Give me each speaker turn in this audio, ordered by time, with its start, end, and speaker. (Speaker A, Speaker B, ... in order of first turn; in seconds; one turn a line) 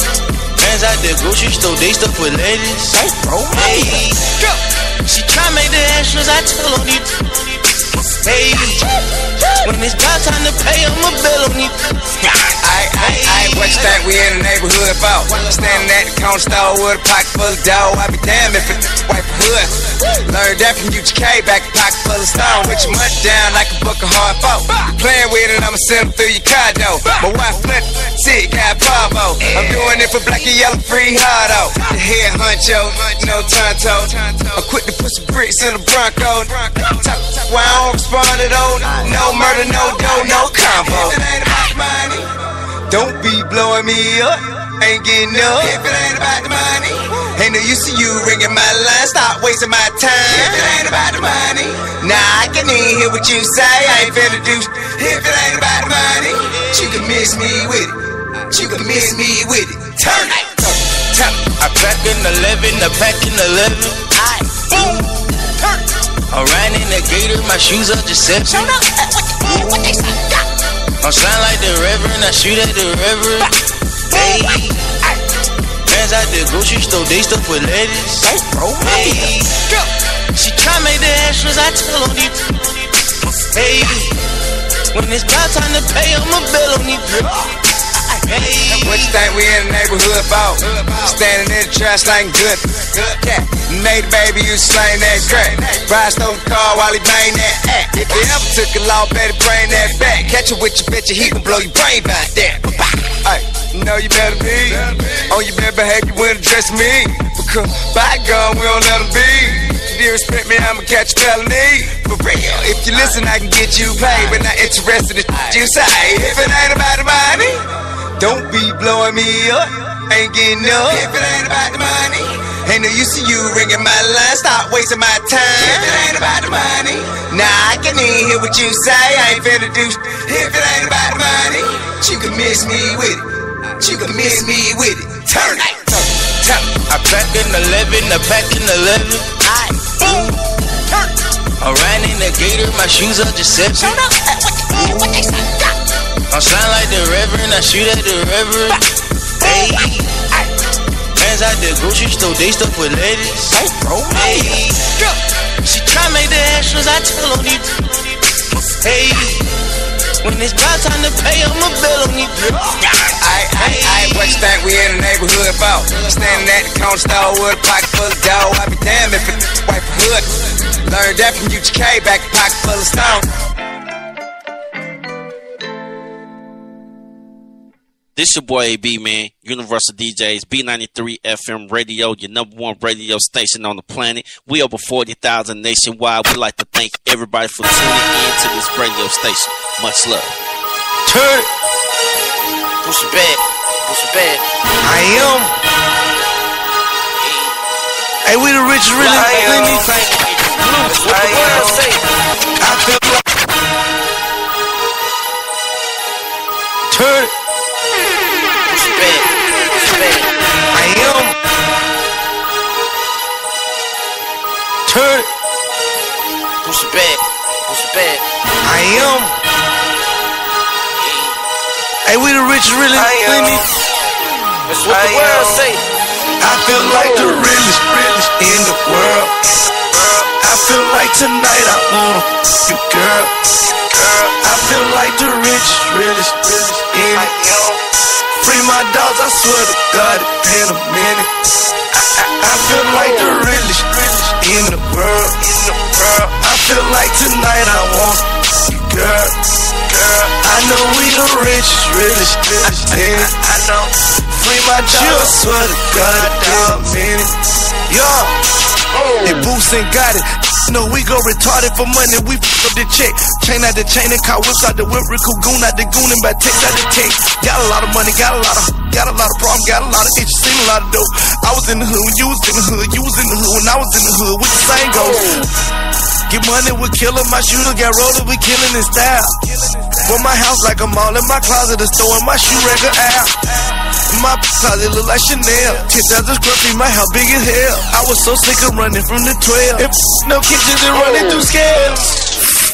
Speaker A: 0.6-4.3
Speaker B: 3.2-3.6
Speaker A: 5.0-7.6
Speaker A: 8.2-8.9
Speaker A: 9.6-11.8
Speaker B: 12.6-42.4
Speaker A: 13.0-14.0
Speaker B: 42.9-61.4
Speaker A: 61.6-64.0
Speaker B: 64.2-64.8
Speaker A: 66.3-68.8
Speaker B: 69.5-69.7
Speaker A: 71.0-73.5
Speaker A: 74.1-74.9
Speaker A: 75.9-79.7
Speaker B: 78.3-79.2
Speaker A: 80.3-82.9
Speaker A: 83.5-84.1
Speaker A: 84.9-87.1
Speaker A: 88.2-89.1
Speaker B: 88.7-136.7
Speaker A: 136.9-139.3
Speaker B: 139.5-140.1
Speaker A: 141.6-144.0
Speaker A: 146.3-148.8
Speaker A: 149.4-150.1
Speaker A: 151.2-154.9
Speaker B: 153.7-154.5
Speaker A: 155.6-158.2
Speaker A: 158.8-159.5
Speaker A: 160.2-162.3
Speaker B: 162.4-173.2
Speaker A: 163.6-164.4
Speaker C: 178.2-190.3
Speaker A: 191.1-191.5
Speaker A: 192.8-194.4
Speaker D: 194.8-195.5
Speaker D: 198.2-199.7
Speaker A: 199.0-202.0
Speaker C: 199.3-199.7
Speaker C: 200.2-201.7
Speaker D: 202.6-203.2
Speaker A: 206.9-207.3
Speaker A: 208.7-210.3
Speaker D: 210.7-211.3
Speaker A: 214.9-215.3
Speaker A: 216.6-218.2
Speaker D: 218.6-219.3
Speaker D: 222.0-223.7
Speaker A: 222.9-223.6
Speaker A: 224.7-225.8
Speaker D: 226.4-229.5
Speaker D: 230.1-233.3
Speaker D: 233.9-237.7
Speaker D: 238.3-241.3
Speaker D: 241.9-249.3
Speaker D: 249.9-257.3
Speaker D: 257.9-258.3
Speaker D: 259.2-275.4
Speaker D: 276.3-279.4
Speaker D: 279.9-283.4
Speaker D: 284.1-292.3